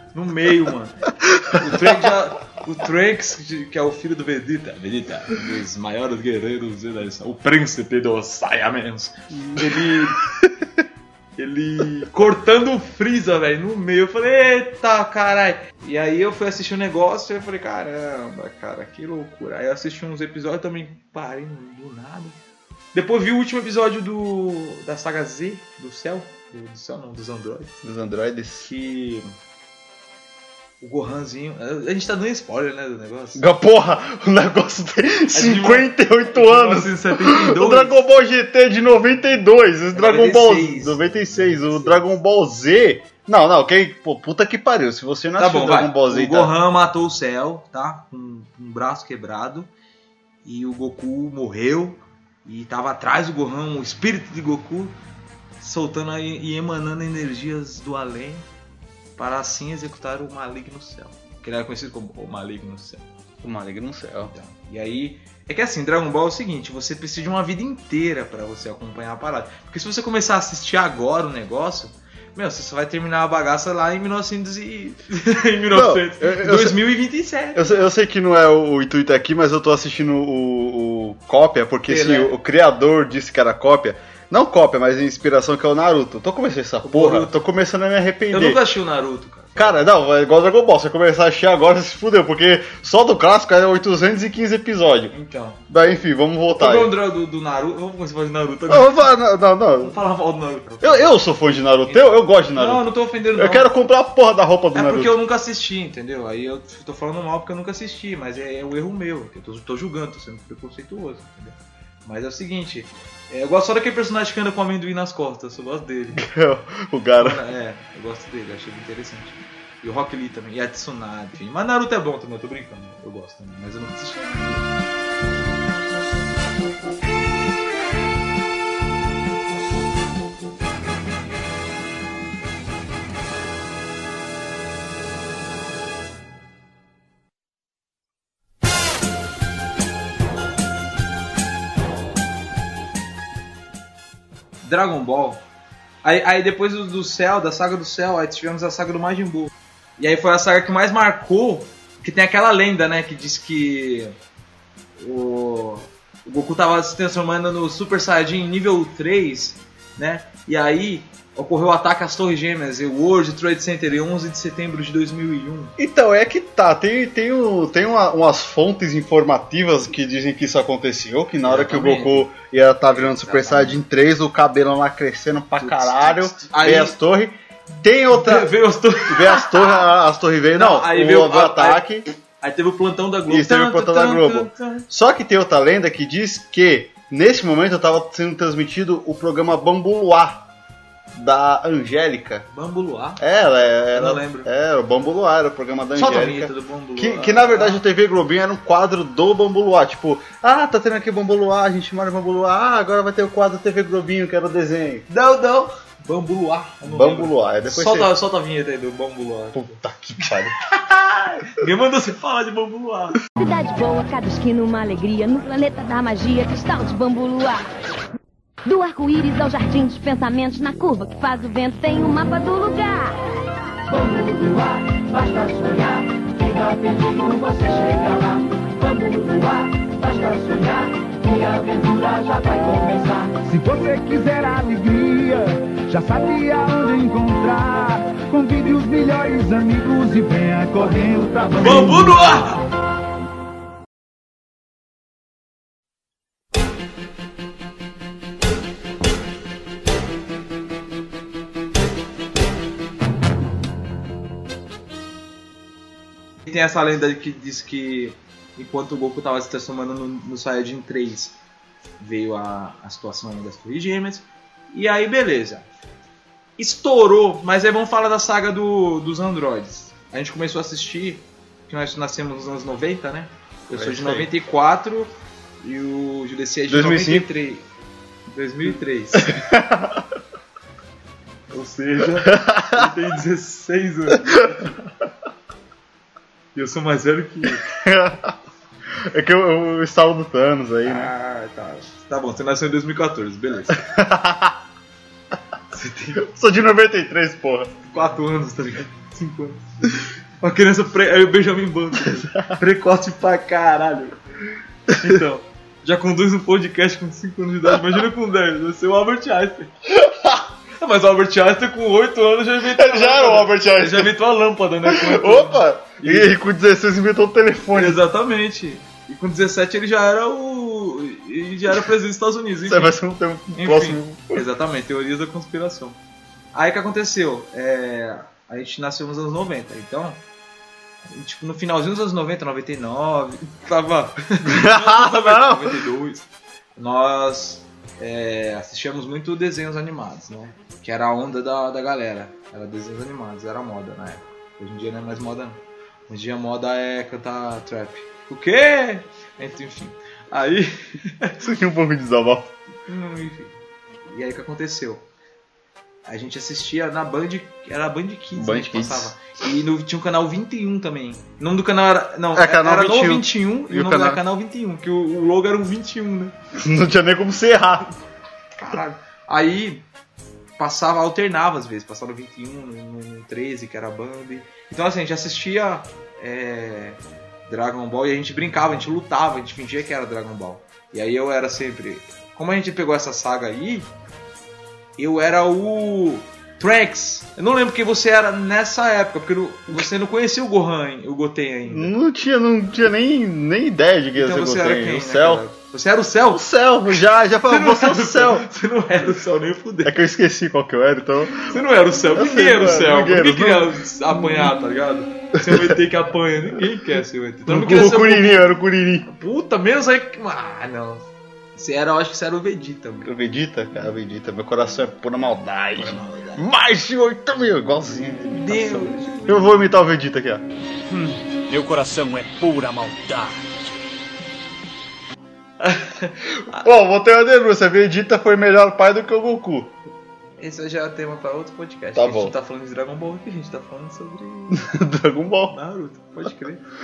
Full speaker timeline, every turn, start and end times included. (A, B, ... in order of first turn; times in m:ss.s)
0:00.1-0:10.3 A
0:01.4-0:01.7 B
0:09.6-0:10.4 B
0:11.4-0:22.4 A
0:22.9-0:27.8 A
0:27.8-0:28.7 B
0:28.6-0:29.4 A
0:30.8-0:33.4 A
0:33.4-0:46.6 B
0:35.3-0:38.0 A
0:39.9-0:42.1 A
0:45.4-0:49.7 A
0:50.4-0:55.0 A
0:55.6-0:58.5 A
0:59.2-1:03.1 A
1:03.4-1:04.3 B
1:04.3-1:17.9 A
1:15.7-1:16.8 B
1:17.6-1:28.6 B
1:21.9-1:22.3 A
1:26.8-1:27.4 A
1:28.3-1:29.9 A
1:29.6-1:35.1 B
1:35.1-1:35.6 A
1:35.7-1:36.9 B
1:36.5-1:39.1 A
1:38.7-1:40.0 B
1:39.8-1:41.2 A
1:40.8-1:45.2 B
1:41.9-1:43.7 A
1:44.7-1:56.2 A
1:56.1-1:57.4 B
1:57.2-2:04.6 A
2:24.6-2:25.4 A
2:26.0-2:34.2 A
2:35.0-2:45.8 A
2:45.8-2:58.5 B
2:51.4-2:52.3 A
2:52.9-2:53.8 A
2:55.6-2:57.0 A
2:58.1-2:59.9 A
2:59.0-3:02.0 B
3:00.5-3:01.8 A
3:02.4-3:04.9 A
3:03.3-3:10.5 B
3:11.1-3:12.5 B
3:12.5-3:13.2 A
3:13.2-3:25.0 B
3:13.9-3:14.5 A
3:16.0-3:17.8 A
3:25.1-3:33.2 A
3:26.8-3:28.1 B
3:29.5-3:30.6 B
3:33.4-3:37.7 C
3:38.6-3:43.2 C
3:43.9-4:02.4 D
4:01.6-4:02.6 A
4:16.5-4:21.4 A
4:22.0-4:25.7 A
4:26.6-4:37.6 A
4:33.7-4:34.3 B
4:36.7-4:37.3 B
4:38.3-4:39.4 A
4:39.2-4:40.1 B
4:41.5-4:44.8 A
4:42.2-4:42.9 B
4:46.6-4:47.7 A
4:47.6-4:48.4 B
4:49.0-4:51.1 B
4:50.8-4:53.8 A
4:53.7-4:54.6 B
4:55.7-4:56.2 A
4:56.2-4:57.7 B
4:57.9-5:04.2 A
5:04.9-5:09.7 A
5:09.9-5:10.4 B
5:10.8-5:16.4 A
5:12.7-5:14.2 B
5:14.8-5:18.0 B
5:17.7-5:23.0 A
5:22.6-5:24.4 B
5:23.6-5:26.0 A
5:26.5-5:30.2 A
5:31.1-5:51.4 A
5:34.4-5:35.8 B
5:51.4-5:52.5 B
5:52.9-5:53.6 A
5:54.1-5:55.1 A
5:56.0-6:06.3 A
5:58.4-5:59.1 B
6:02.3-6:04.2 B
6:06.5-6:07.9 B
6:08.6-6:09.9 A
6:10.6-6:23.9 A
6:25.0-6:32.0 A
6:31.7-6:35.4 B
6:34.2-6:36.5 A
6:36.3-6:38.5 B
6:37.4-6:40.0 A
6:39.8-6:41.6 B
6:41.4-6:48.5 A
6:42.1-6:43.7 B
6:45.4-6:45.8 B
6:47.5-6:49.1 B
6:49.0-6:53.1 A
6:53.0-7:00.4 B
6:55.8-6:56.5 A
6:58.3-6:59.6 A
7:00.9-7:03.5 E
7:05.6-7:06.6 A
7:06.5-7:09.7 B
7:10.4-7:14.7 A
7:12.0-7:12.4 B
7:14.5-7:15.6 B
7:15.5-7:16.6 A